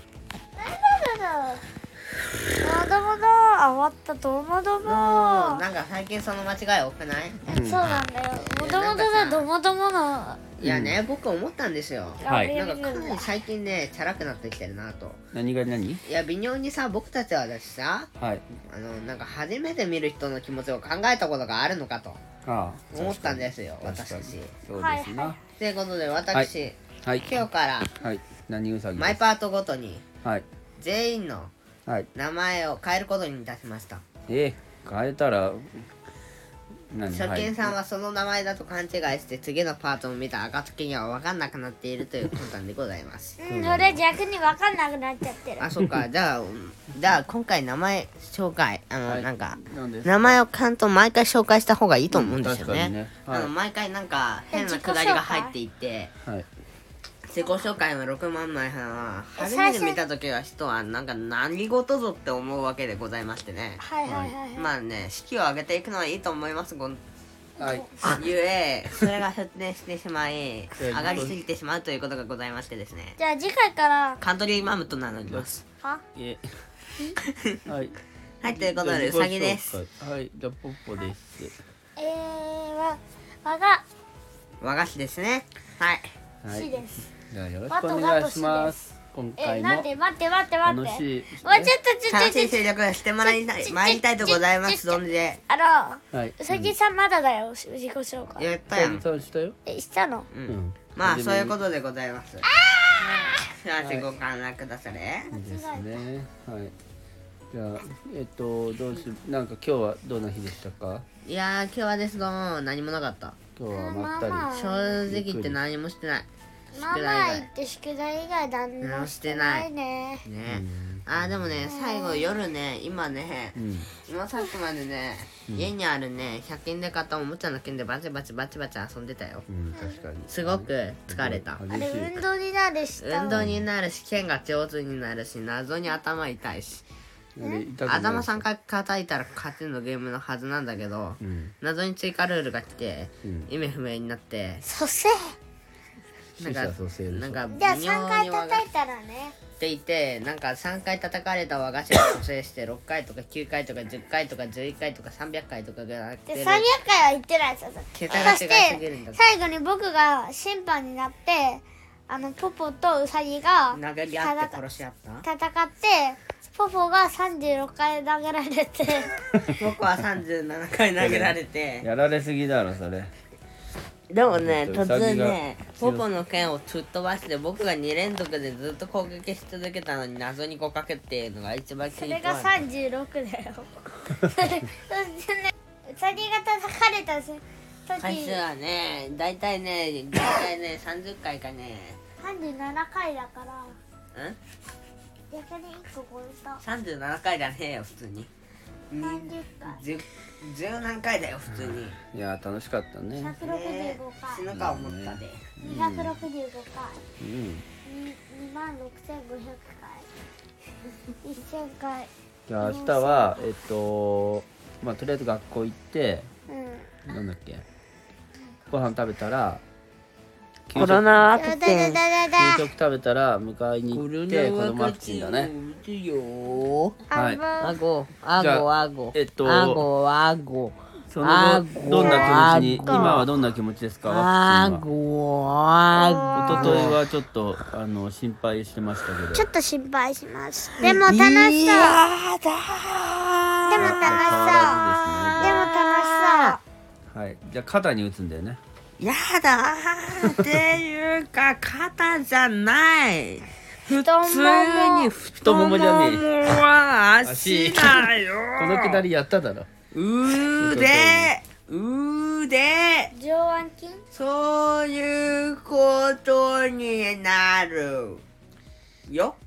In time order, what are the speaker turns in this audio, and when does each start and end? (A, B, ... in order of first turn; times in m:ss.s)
0:00.6-0:01.6 A
0:02.6-0:05.6 A
0:04.8-0:07.4 B
0:07.5-0:10.4 A
0:07.5-0:07.9 C
0:08.3-0:09.4 B
0:10.6-0:15.2 B
0:10.6-0:11.0 C
0:12.2-0:13.3 A
0:12.2-0:12.5 C
0:15.3-0:16.0 C
0:16.0-0:18.1 B
0:18.2-0:18.4 C
0:18.7-0:22.2 B
0:22.4-0:25.4 C
0:22.9-0:24.5 B
0:24.7-0:25.4 A
0:25.6-0:27.9 B
0:28.0-0:29.2 C
0:29.0-0:30.0 B
0:30.8-0:31.5 B
0:32.1-0:34.0 B
0:34.3-0:35.8 C
0:36.9-0:37.7 C
0:37.1-0:43.4 B
0:43.4-0:45.6 A
0:43.5-0:44.0 C
0:45.6-0:56.1 B
0:49.0-0:50.4 C
0:52.1-0:53.5 C
0:54.5-0:55.5 A
0:57.3-1:07.0 B
0:59.4-1:00.0 A
1:03.8-1:04.7 A
1:07.6-1:08.0 A
1:07.6-1:08.1 C
1:08.0-1:13.2 B
1:10.8-1:11.3 C
1:13.2-1:14.2 A
1:14.2-1:15.6 B
1:16.1-1:16.4 C
1:17.3-1:17.6 B
1:17.6-1:18.0 C
1:18.4-1:19.8 B
1:18.5-1:21.5 C
1:22.0-1:23.8 A
1:24.6-1:26.1 B
1:26.4-1:26.7 C
1:26.5-1:27.1 A
1:27.3-1:29.9 C
1:27.7-1:28.8 A
1:29.4-1:32.6 A
1:30.6-1:31.7 C
1:32.1-1:35.4 B
1:33.2-1:38.5 A
1:36.1-1:36.7 C
1:38.4-1:39.0 B
1:38.7-1:39.6 C
1:39.6-1:40.3 A
1:40.3-1:42.5 B
1:40.5-1:41.6 C
1:42.5-1:43.4 A
1:43.4-1:45.3 B
1:43.8-1:44.1 C
1:45.3-1:46.0 A
1:45.3-1:46.7 C
1:47.5-1:51.0 C
1:51.2-1:53.4 B
1:53.6-1:54.5 C
1:53.7-1:55.0 A
1:54.5-1:56.3 B
1:55.0-1:55.6 C
1:56.7-2:00.2 A
1:56.8-1:57.5 B
1:58.8-1:59.7 B
2:00.2-2:09.4 B
2:00.5-2:01.6 C
2:01.6-2:02.4 A
2:03.5-2:03.9 C
2:09.5-2:12.2 C
2:09.7-2:10.0 A
2:10.3-2:11.6 B
2:11.7-2:13.4 A
2:13.0-2:16.8 B
2:13.3-2:13.6 C
2:17.4-2:18.4 C
2:17.8-2:24.6 B
2:21.2-2:21.5 C
2:23.2-2:23.5 C
2:24.6-2:25.4 A
2:26.4-2:27.4 C
2:26.4-2:28.6 B
2:27.5-2:29.4 A
2:29.6-2:36.7 B
2:36.3-2:44.6 A
2:37.9-2:39.2 B
2:43.7-2:45.2 B
2:45.2-2:49.1 A
2:49.4-2:51.9 B
2:51.0-2:53.1 C
2:54.1-3:02.6 B
2:54.3-2:56.0 C
3:01.9-3:08.4 A
3:08.0-3:12.0 B
3:12.2-3:13.8 A
3:15.3-3:16.6 A
3:16.6-3:18.3 B
3:18.9-3:22.0 B
3:19.0-3:19.8 A
3:22.0-3:23.3 C
3:23.2-3:24.4 A
3:23.4-3:25.5 B
3:24.5-3:26.2 C
3:25.6-3:27.0 A
3:27.2-3:27.6 C
3:27.8-3:30.1 A
3:31.2-3:33.4 A
3:32.5-3:36.3 C
3:36.5-3:37.0 A
3:37.1-3:37.6 C
3:38.7-3:39.6 C
3:40.7-3:41.0 C
3:40.7-3:42.0 B
3:41.3-3:42.7 A
3:42.3-3:45.5 C
3:43.9-3:47.0 B
3:47.1-3:47.8 A
3:47.1-3:47.4 C
3:47.6-3:53.3 B
3:48.4-3:49.8 C
3:51.1-3:54.8 C
3:52.0-3:53.3 A
3:54.0-3:57.0 B
3:55.9-3:56.8 A
3:56.3-3:59.5 C
3:59.3-4:02.0 A
4:00.8-4:06.6 B
4:03.7-4:04.8 A
4:03.8-4:05.6 C
4:05.4-4:06.6 A
4:07.1-4:08.6 C
4:09.0-4:19.0 B
4:13.8-4:15.1 A
4:15.4-4:16.2 C
4:17.2-4:19.7 C
4:19.9-4:23.1 B
4:20.4-4:21.3 C
4:23.1-4:24.0 A
4:24.1-4:28.2 B
4:29.1-4:29.4 B